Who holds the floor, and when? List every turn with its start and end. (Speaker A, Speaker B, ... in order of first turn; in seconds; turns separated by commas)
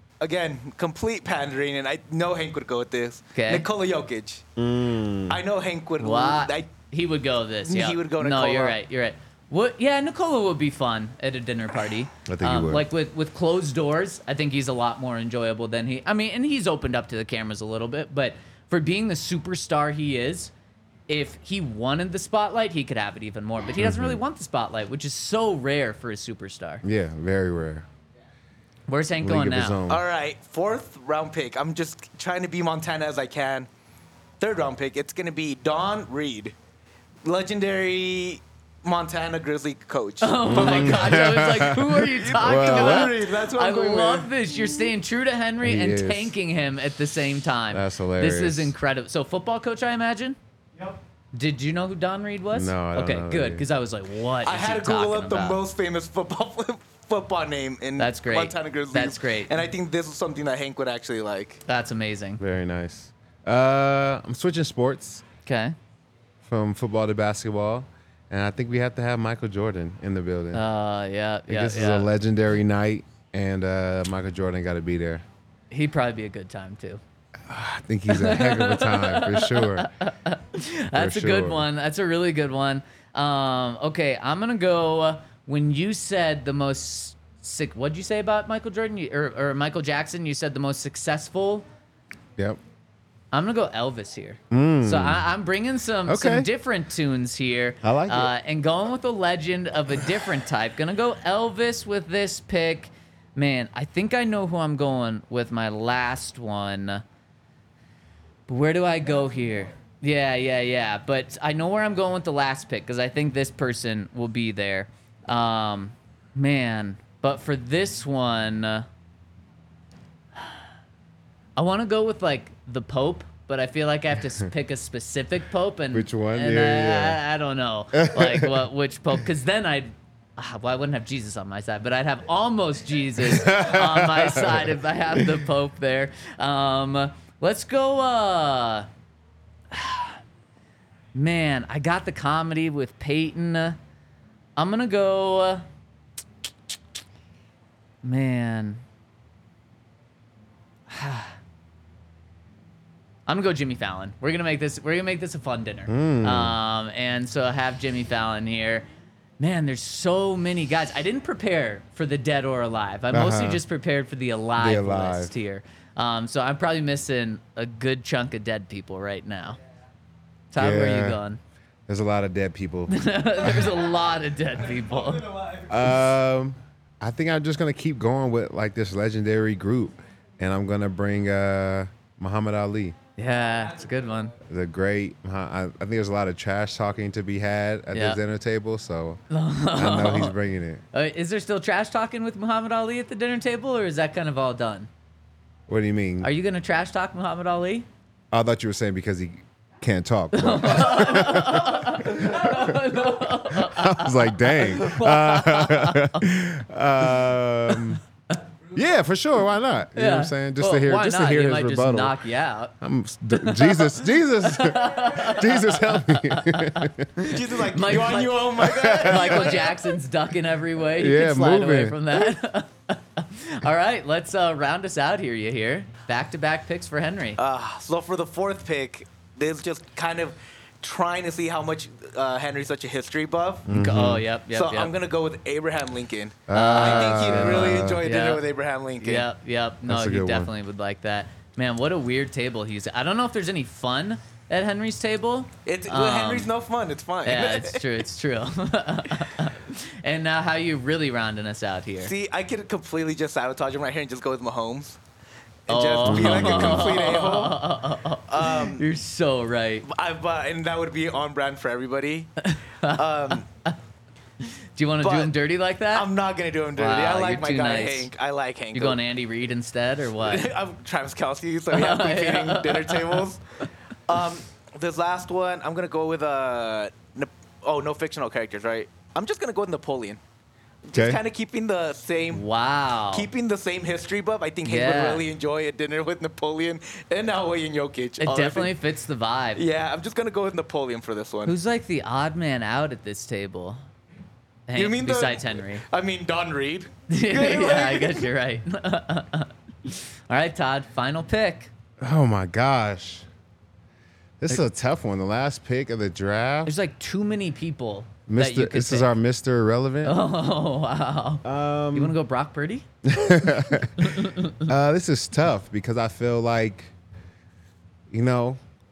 Speaker A: 0.2-4.5, Speaker B: 3.3-3.7, Speaker C: 4.6-5.4, Speaker A: 5.3-6.7, Speaker B: 6.0-20.5, Speaker A: 7.7-8.8, Speaker C: 12.2-12.9, Speaker B: 21.1-26.8, Speaker C: 23.8-24.2, Speaker C: 26.8-27.9, Speaker B: 28.9-29.8, Speaker C: 29.2-30.0, Speaker A: 29.9-33.7, Speaker A: 34.4-36.5, Speaker A: 37.2-41.2, Speaker B: 40.2-50.4, Speaker C: 40.4-43.1, Speaker A: 42.1-44.3, Speaker C: 45.6-46.3, Speaker C: 47.7-48.7, Speaker B: 51.3-55.6, Speaker C: 52.5-53.6, Speaker A: 54.4-61.6, Speaker B: 58.0-59.6, Speaker B: 61.7-62.4, Speaker C: 62.4-65.2, Speaker B: 65.5-65.8, Speaker C: 66.4-70.6, Speaker B: 70.5-72.1, Speaker C: 71.5-75.2, Speaker B: 75.7-77.0, Speaker C: 77.5-79.9, Speaker B: 78.1-91.7, Speaker C: 80.9-81.7, Speaker B: 93.3-107.0, Speaker C: 94.5-95.3, Speaker C: 96.0-96.5, Speaker C: 97.8-98.3, Speaker B: 108.5-118.9, Speaker B: 121.5-138.9, Speaker C: 125.9-127.2, Speaker C: 127.9-128.7, Speaker C: 133.2-135.3, Speaker B: 139.7-140.2, Speaker B: 141.1-143.8, Speaker B: 144.6-145.6, Speaker B: 148.0-148.8, Speaker B: 150.9-151.3, Speaker B: 153.3-158.8, Speaker C: 155.9-156.6, Speaker B: 159.4-169.6, Speaker C: 163.1-163.6, Speaker C: 164.6-165.3, Speaker B: 170.5-171.4, Speaker C: 170.5-171.2, Speaker C: 171.9-173.0, Speaker B: 172.9-175.3, Speaker A: 175.3-175.6, Speaker C: 175.7-182.9, Speaker B: 183.2-184.3, Speaker C: 184.4-189.2, Speaker B: 187.9-188.2, Speaker B: 189.3-190.3, Speaker C: 189.7-190.8, Speaker B: 190.9-194.9, Speaker C: 195.7-196.3, Speaker B: 196.2-197.9, Speaker C: 198.3-208.0, Speaker B: 200.3-206.2, Speaker C: 208.7-212.2, Speaker B: 209.9-212.7, Speaker C: 212.8-217.1, Speaker B: 213.3-227.4, Speaker A: 217.3-219.9, Speaker C: 218.6-219.4, Speaker C: 221.0-222.3, Speaker A: 227.4-233.7, Speaker C: 233.7-234.2, Speaker B: 233.7-234.9, Speaker A: 234.5-239.3, Speaker C: 236.5-238.0, Speaker B: 236.5-238.4, Speaker B: 239.0-246.5, Speaker C: 239.9-240.5, Speaker A: 245.7-247.8, Speaker B: 247.2-252.1, Speaker A: 252.0-255.0, Speaker A: 255.7-257.6, Speaker B: 255.7-259.9, Speaker C: 256.0-256.8, Speaker A: 258.3-258.8, Speaker A: 259.8-262.3, Speaker B: 262.4-263.7, Speaker A: 262.8-263.5, Speaker B: 264.7-266.1, Speaker A: 265.0-265.3, Speaker A: 265.9-269.0, Speaker B: 266.8-268.1, Speaker B: 268.7-270.5, Speaker A: 270.2-273.4, Speaker B: 271.7-273.2, Speaker A: 274.1-280.2, Speaker A: 280.8-282.4, Speaker C: 280.9-281.2, Speaker B: 282.3-283.3, Speaker A: 283.1-288.7, Speaker B: 284.6-285.2, Speaker B: 288.2-289.6, Speaker A: 289.6-291.5, Speaker B: 291.4-293.9, Speaker B: 294.7-295.8, Speaker A: 294.8-298.2, Speaker B: 297.1-301.7, Speaker C: 302.0-303.2, Speaker C: 304.4-306.7, Speaker B: 306.6-309.1, Speaker C: 308.3-310.2, Speaker B: 310.0-312.9, Speaker C: 311.4-312.2, Speaker C: 313.0-314.1, Speaker B: 313.4-314.7, Speaker C: 314.6-316.9, Speaker C: 318.1-318.6